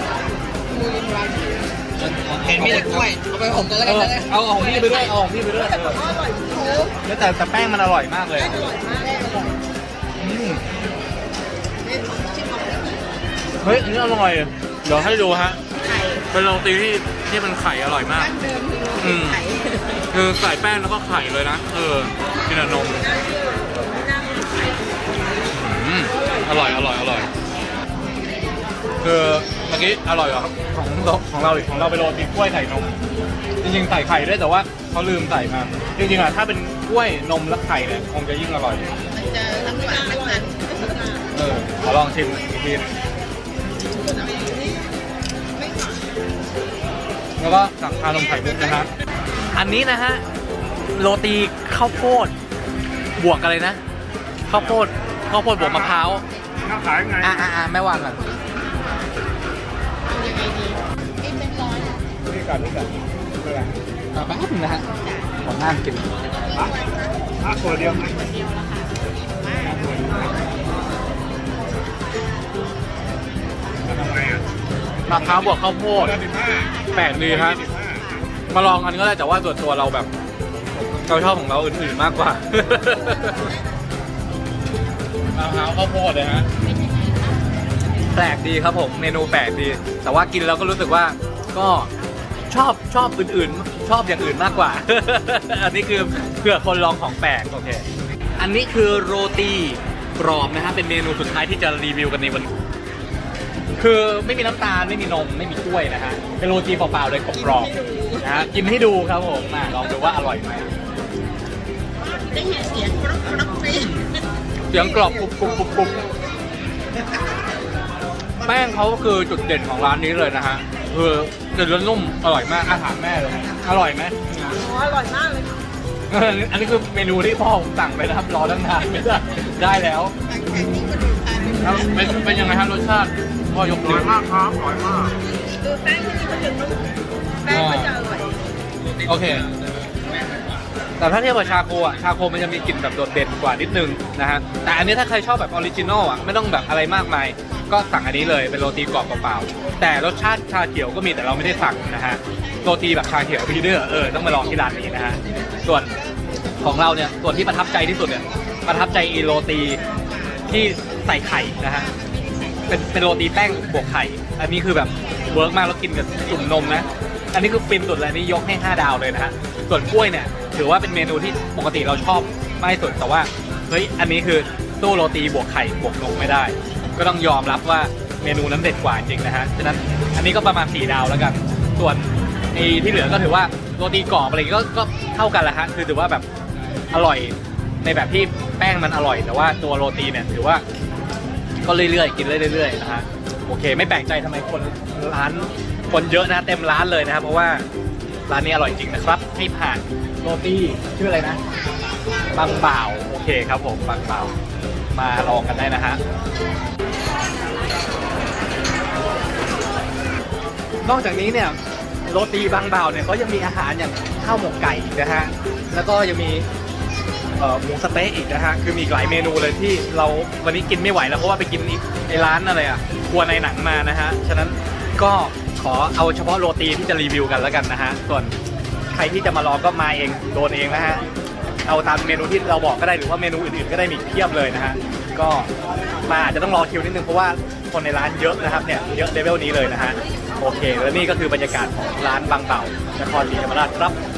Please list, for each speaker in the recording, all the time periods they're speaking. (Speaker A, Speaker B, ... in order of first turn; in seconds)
Speaker A: 0.7-1.6, 4.6-6.9, 8.3-9.6, 11.8-13.0, 15.8-16.2, 18.1-20.0, 23.0-24.8, 39.1-41.2, 43.9-44.9, 45.5-46.1, 48.1-48.9, 60.1-62.0, 68.0-69.8, 77.3-78.2, 86.7-87.3, 107.3-108.5, 109.7-110.2, 112.0-114.1, 114.7-116.2, 124.3-125.6, 130.2-132.4, 135.6-138.3, 159.8-160.5, 161.5-163.3, 165.0-165.4, 166.1-166.8
Speaker B: 2.0-3.1, 3.8-6.0, 7.0-8.6, 10.2-10.6, 13.6-15.6, 16.3-18.3, 19.0-19.4, 20.1-23.1, 25.5-27.3, 29.0-32.9, 33.6-38.9, 41.3-42.9, 47.4-48.9, 49.5-50.2, 50.9-52.3, 53.2-53.8, 54.5-56.2, 57.2-58.4, 64.1-64.9, 65.4-66.1, 75.1-76.2, 76.9-77.6, 78.5-80.1, 80.9-83.5, 85.3-86.5, 88.1-91.9, 92.5-97.8, 98.4-102.5, 103.8-110.7, 114.7-116.0, 118.4-124.2, 126.1-130.1, 131.6-134.2, 137.5-137.9, 139.0-139.5, 141.0-155.9, 156.6-159.8, 160.5-161.9, 162.7-186.2, 186.9-190.6, 191.6-197.6, 198.3-201.4, 202.3-204.3, 204.9-206.0, 210.8-216.4, 217.4-228.3, 228.9-231.0, 231.7-235.5, 236.0-244.0
Speaker C: 2.4-4.3, 39.5-41.0, 139.0-140.4
Speaker D: 55.6-56.1, 56.6-57.5, 62.2-63.8, 67.4-68.2, 69.6-70.4, 73.8-74.5, 75.1-78.1, 133.8-135.2